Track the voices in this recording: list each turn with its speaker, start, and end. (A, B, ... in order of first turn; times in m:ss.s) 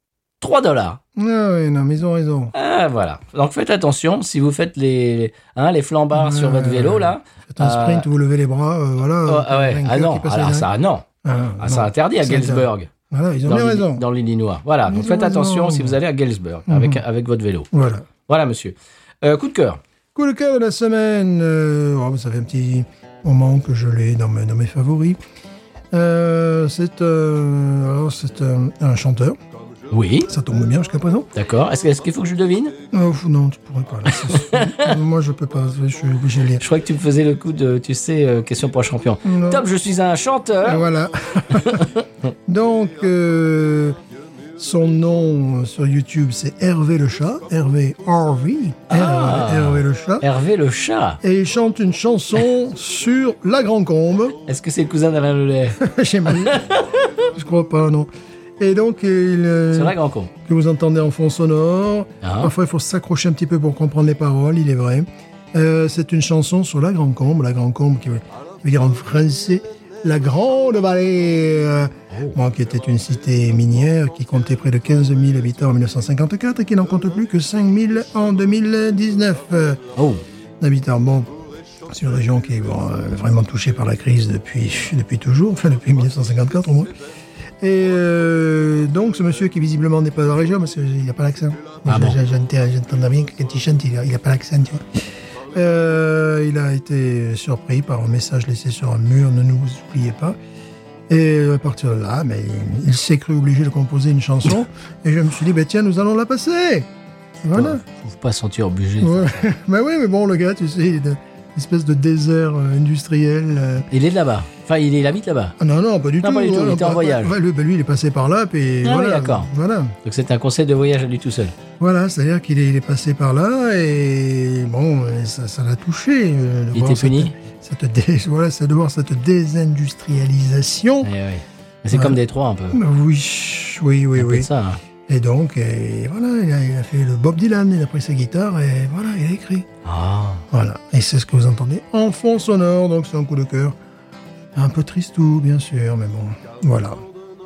0:00.4-0:01.0 A
0:01.2-0:02.5 B
0:02.5-0:08.1 A
0:06.1-0:10.7 B
0:09.2-0:11.0 A
0:11.2-0:14.0 B
0:11.6-0:12.9 A
0:13.4-0:17.7 A
0:14.8-0:16.0 B
0:16.7-0:17.0 B
0:17.7-0:18.0 B
0:18.3-0:19.8 A
0:20.1-0:25.2 B
0:25.9-0:29.4 B
0:29.9-0:30.3 A
0:30.3-0:31.3 B
0:31.3-0:32.8 A
0:32.9-0:36.6 B
0:34.1-0:35.0 A
0:36.6-0:40.9 A
0:39.2-0:39.7 B
0:40.6-0:41.9 B
0:41.5-0:42.1 A
0:42.4-0:44.0 B
0:44.6-0:50.2 B
0:48.9-0:51.2 A
0:51.2-0:54.4 B
0:54.4-0:55.8 A
0:55.8-0:56.8 B
0:56.4-0:57.1 A
0:57.3-0:58.1 B
0:58.6-1:19.8 B
0:59.7-1:00.3 A
1:02.2-1:02.5 A
1:12.1-1:12.4 A
1:20.0-1:20.2 A
1:20.6-1:27.0 B
1:27.6-1:40.4 B
1:31.9-1:32.2 A
1:41.1-1:46.9 B
1:47.4-1:47.8 B
1:47.5-1:49.5 A
1:49.0-1:53.9 B
1:53.9-1:55.6 A
1:55.6-2:00.0 B
1:56.2-1:57.3 A
1:58.8-1:59.5 A
2:00.0-2:01.5 A
2:01.8-2:11.1 B
2:06.7-2:07.3 A
2:11.0-2:12.8 A
2:11.9-2:12.2 B
2:12.7-2:14.5 B
2:14.2-2:14.8 A
2:15.1-2:19.7 B
2:19.8-2:20.4 A
2:20.5-2:23.8 B
2:24.5-2:27.0 B